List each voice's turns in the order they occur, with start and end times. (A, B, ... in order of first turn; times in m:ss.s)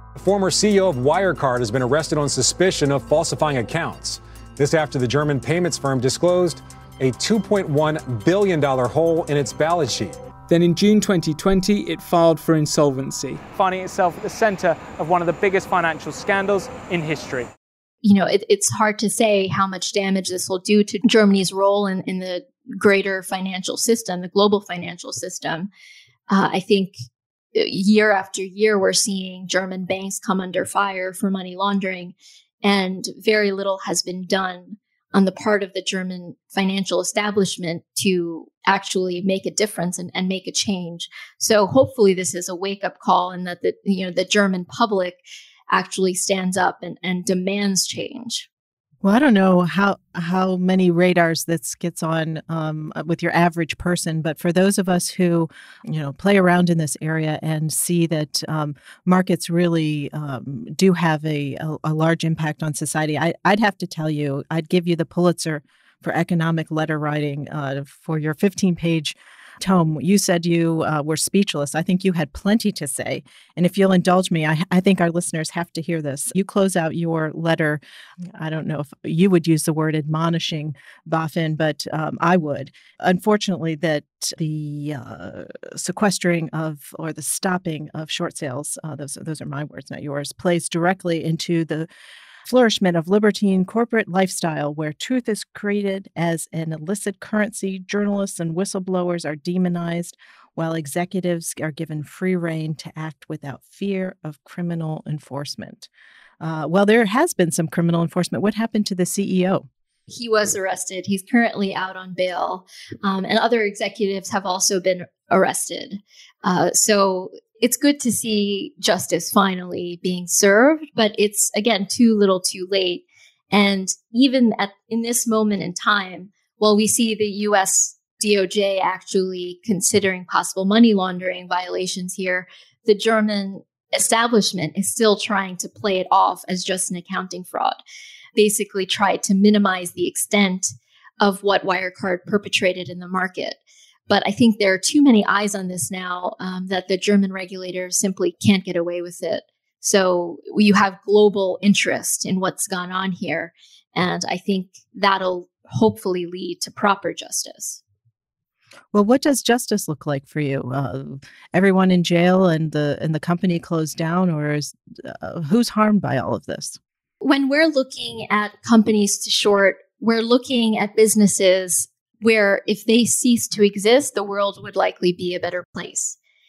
0:00.1-0:10.1 A
0:10.5-0:17.5 B
0:18.0-0:25.7 C
0:26.3-0:26.9 C
0:27.5-0:48.5 C
0:49.0-1:17.8 D
1:18.3-1:31.9 D
1:32.4-1:45.9 D
1:46.4-1:49.7 D
1:50.1-2:17.8 C
2:18.4-2:37.8 C
2:38.9-2:46.8 D
2:47.2-2:56.2 C